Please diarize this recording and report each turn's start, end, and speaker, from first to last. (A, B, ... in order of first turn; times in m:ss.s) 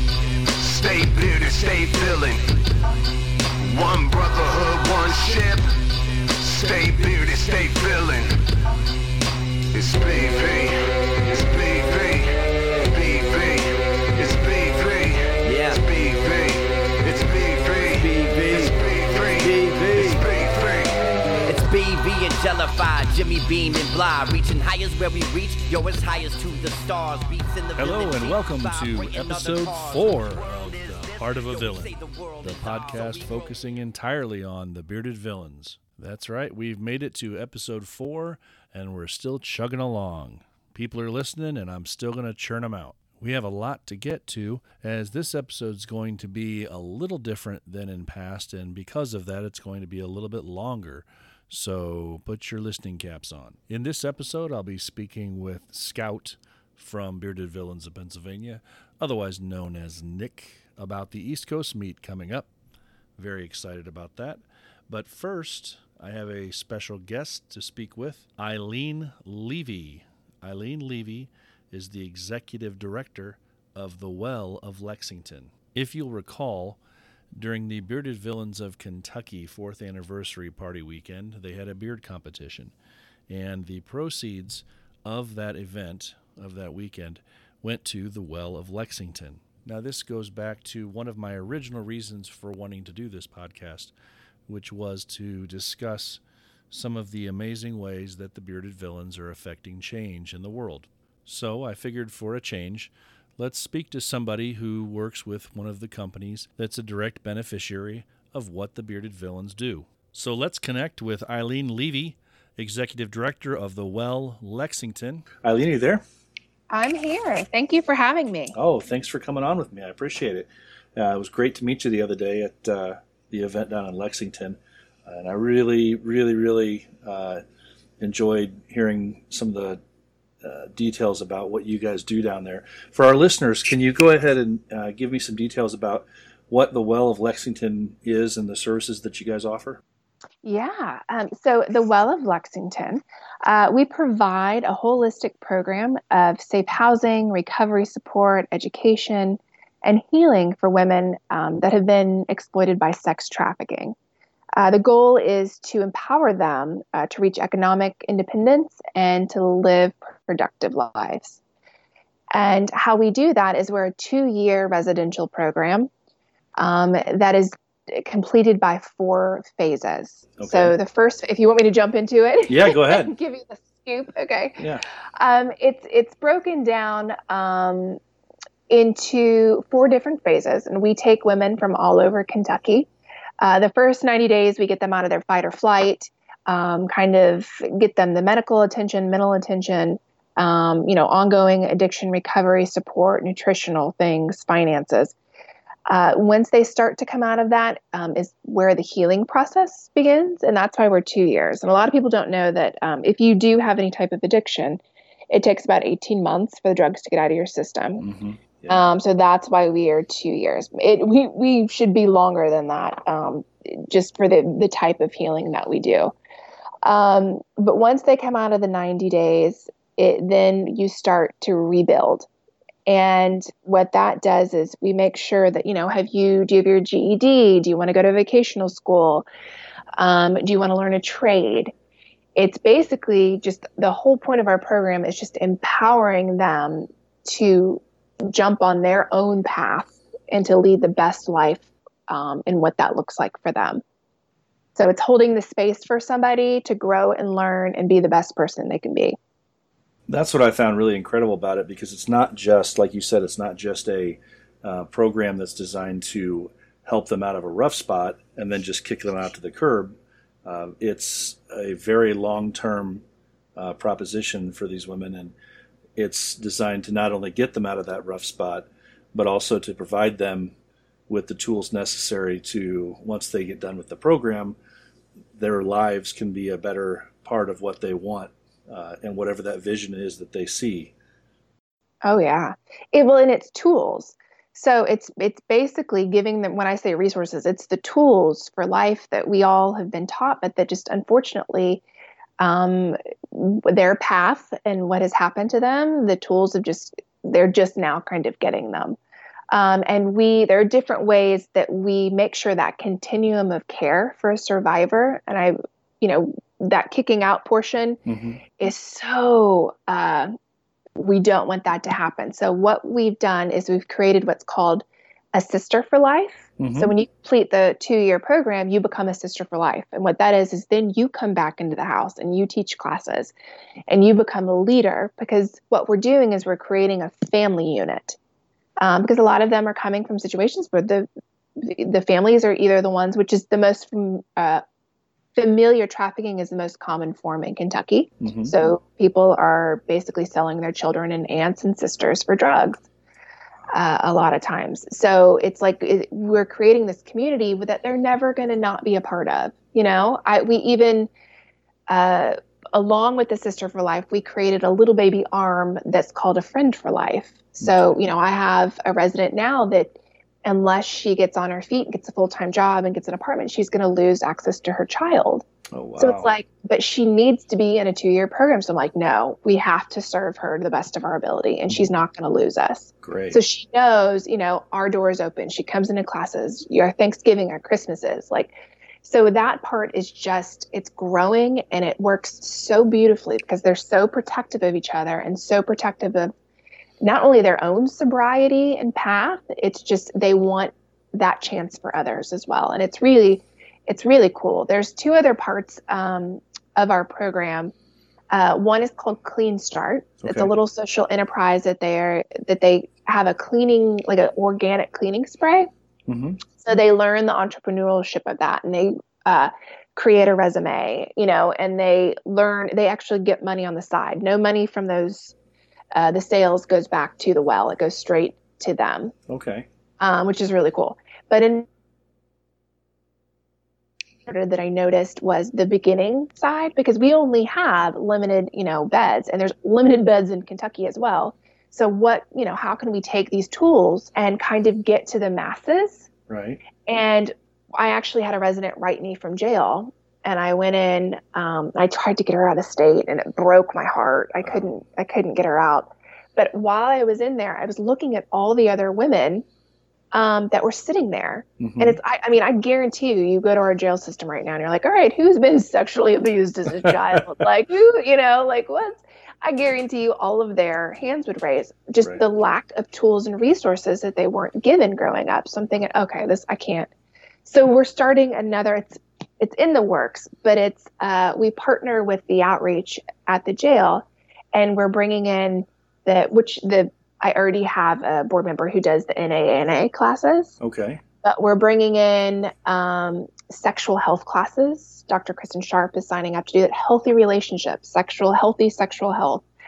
0:00.6-0:02.4 A
0:03.6-0:05.6 A
0:06.4-0:08.3 A
0:09.7-0:10.7 A
0:11.3-0:12.3 A
0:12.8-0:20.9 A
0:15.4-0:15.8 B
0:18.0-0:18.7 B
0:19.4-0:20.2 B
0:21.4-0:33.5 B
0:27.8-1:02.5 C
1:03.2-1:16.8 C
1:17.4-1:22.7 C
1:23.3-1:33.9 C
1:34.5-1:56.0 C
1:56.7-1:58.5 D
1:58.6-2:07.4 C
2:08.0-2:09.8 C
2:10.4-2:19.8 C
2:20.4-2:34.0 D
2:34.6-2:41.4 D
2:42.3-2:45.9 D
2:46.6-2:54.6 D
2:50.4-2:50.7 C
2:52.5-2:53.1 C
2:55.2-2:58.0 D
2:58.7-3:02.9 D
3:03.4-3:15.1 D
3:15.9-3:28.0 D
3:28.0-3:28.8 C
3:28.7-3:36.1 D
3:36.8-3:42.3 D
3:42.9-3:49.2 D
3:50.0-3:51.7 D
3:52.4-4:03.8 D
4:04.8-4:09.2 D
4:10.1-4:23.0 C
4:23.6-4:25.3 C
4:26.0-4:30.5 C
4:31.1-4:34.6 C
4:35.3-4:40.9 C
4:42.0-4:51.8 D
4:52.4-4:59.0 D
4:59.5-5:08.0 D
5:08.0-5:08.4 C
5:08.6-5:10.3 D
5:11.0-5:23.3 D
5:16.6-5:16.9 C
5:23.9-5:28.2 D
5:28.8-5:34.6 D
5:35.4-5:42.8 D
5:38.2-5:38.5 C
5:43.7-5:51.1 D
5:51.9-6:05.4 D
5:57.6-5:58.0 C
6:05.7-6:06.3 C
6:06.0-6:26.3 D
6:13.0-6:13.4 C
6:27.0-6:37.7 D
6:38.3-6:45.7 D
6:40.2-6:40.5 C
6:46.1-6:46.4 C
6:46.6-6:55.3 D
6:55.9-6:59.1 D
6:59.3-6:59.7 C
7:00.0-7:01.6 D
7:04.2-7:16.1 D
7:16.3-7:16.6 C
7:16.8-7:29.4 D
7:30.1-7:46.9 D
7:31.6-7:32.0 C
7:47.4-8:00.5 D
8:00.6-8:01.0 C
8:01.2-8:09.4 D